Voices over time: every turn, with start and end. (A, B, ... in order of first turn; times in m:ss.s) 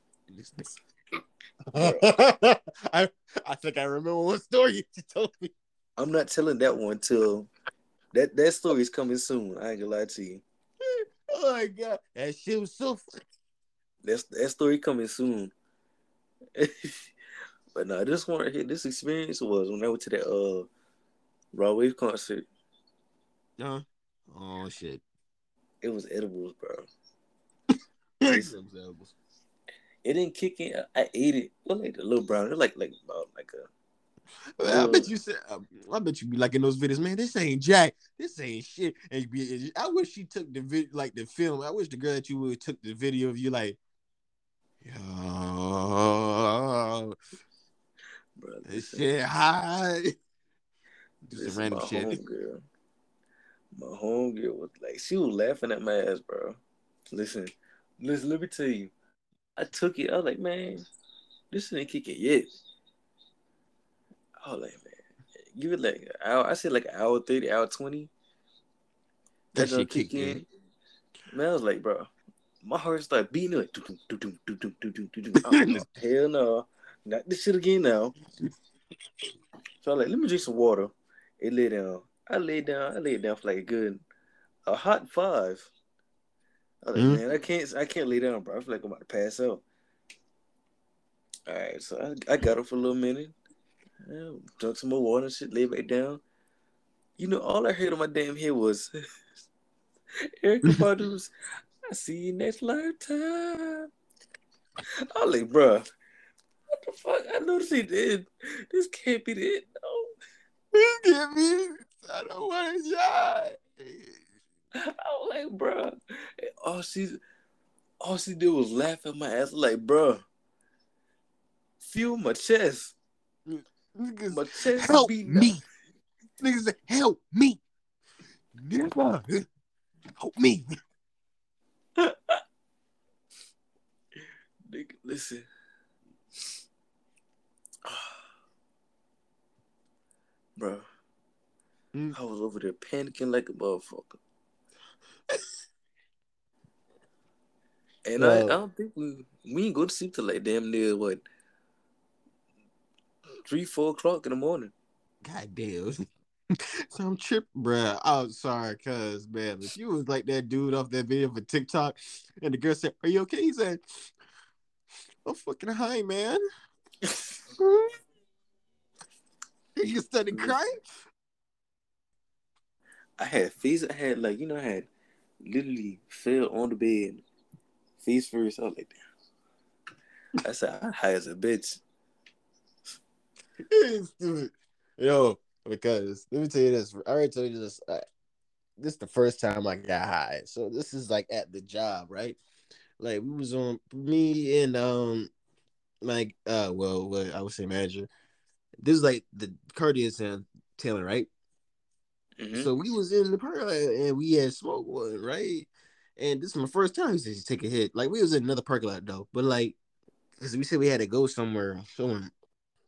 0:00.3-0:00.8 A
0:01.7-0:05.5 A
0:01.8-0:02.1 B
0:06.0-0:07.5 B
0:08.1-0:10.4 B
0:10.8-0:13.1 A
0:14.0-0:15.5 B
0:16.6-0:17.1 B
0:17.7-0:20.7 B
0:21.5-0:22.4 B
0:23.6-0:25.0 A
0:25.8-0:26.9 B
0:28.2-0:29.1 A
0:28.2-0:28.5 B
0:30.0-0:33.7 B
0:34.6-0:43.8 A
0:34.6-0:35.1 B
0:44.8-0:47.2 A
0:48.4-0:49.0 B
0:48.7-0:50.1 A
0:51.3-0:52.2 A
0:51.4-0:52.6 B
0:53.7-0:58.9 B
0:59.6-1:00.8 B
1:01.5-1:02.5 B
1:04.4-1:05.0 B
1:05.5-1:08.1 B
1:09.5-1:10.4 B
1:09.5-1:10.4 A
1:11.3-1:12.1 B
1:12.6-1:18.2 B
1:15.5-1:15.8 A
1:19.8-1:24.0 B
1:24.7-1:25.7 B
1:26.8-1:29.6 B
1:27.0-1:27.2 A
1:31.5-1:33.3 B
1:34.0-1:36.2 B
1:37.2-1:38.9 B
1:40.4-1:41.3 B
1:41.9-1:43.9 B
1:45.1-1:45.9 B
1:46.7-1:50.1 B
1:50.7-1:54.1 A
1:54.7-1:57.2 B
1:58.0-2:00.2 B
2:01.8-2:02.9 B
2:03.5-2:05.6 A
2:04.3-2:05.6 B
2:06.4-2:07.6 A
2:08.6-2:09.4 A
2:10.2-2:10.6 A
2:12.0-2:12.4 B
2:14.7-2:15.4 B
2:17.8-2:18.1 B
2:20.6-2:20.8 B
2:22.1-2:24.2 B
2:28.0-2:31.2 B
2:28.2-2:28.6 A
2:33.4-2:34.7 B
2:35.2-2:36.0 A
2:36.9-2:43.8 A
2:45.2-2:46.4 A
2:47.6-2:47.9 A
2:49.8-2:50.8 A
2:50.3-2:50.6 B
2:53.2-2:54.9 B
2:55.4-2:57.2 B
2:58.0-2:59.0 B
3:00.4-3:01.8 B
3:03.7-3:08.0 A
3:08.8-3:12.4 A
3:13.0-3:15.3 A
3:16.0-3:18.1 A
3:18.8-3:21.3 A
3:22.4-3:22.7 B
3:22.5-3:29.8 A
3:30.4-3:32.3 A